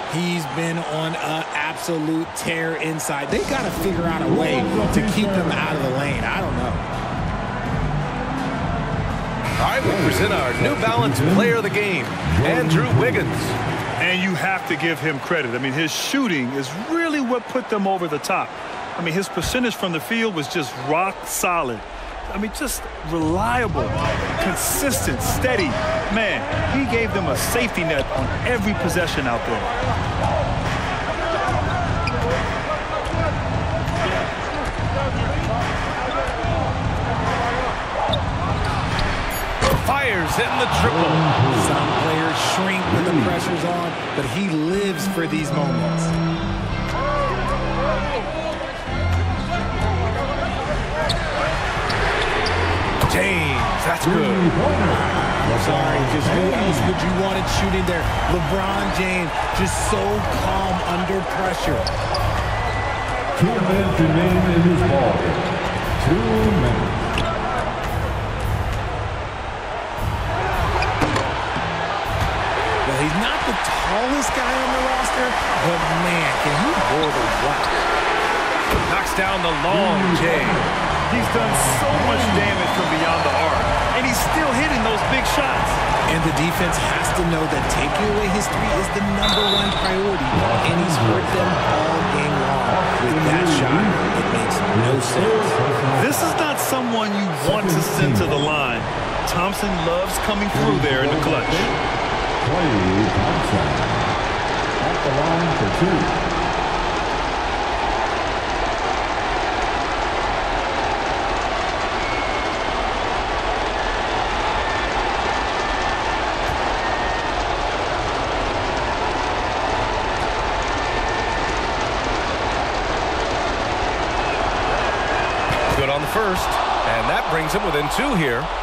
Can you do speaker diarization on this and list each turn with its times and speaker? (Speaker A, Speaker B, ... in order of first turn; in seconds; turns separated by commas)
Speaker A: 0.1-6.8, Speaker B: 4.3-5.8, Speaker C: 9.6-13.6, Speaker B: 9.8-11.6, Speaker B: 12.2-13.3, Speaker D: 14.0-29.7, Speaker C: 39.7-41.3, Speaker B: 40.7-41.9, Speaker A: 41.4-46.1, Speaker B: 42.9-43.4, Speaker C: 53.0-54.6, Speaker B: 54.0-57.0, Speaker A: 54.8-61.9, Speaker B: 63.3-65.4, Speaker B: 66.0-67.1, Speaker A: 72.8-77.9, Speaker C: 78.9-80.7, Speaker B: 79.7-82.5, Speaker D: 81.1-85.8, Speaker A: 86.1-95.6, Speaker B: 90.3-91.7, Speaker B: 92.6-94.0, Speaker B: 94.7-96.3, Speaker D: 96.0-101.7, Speaker B: 97.4-98.4, Speaker B: 100.5-101.8, Speaker B: 102.4-104.1, Speaker B: 104.8-106.2, Speaker C: 125.7-128.5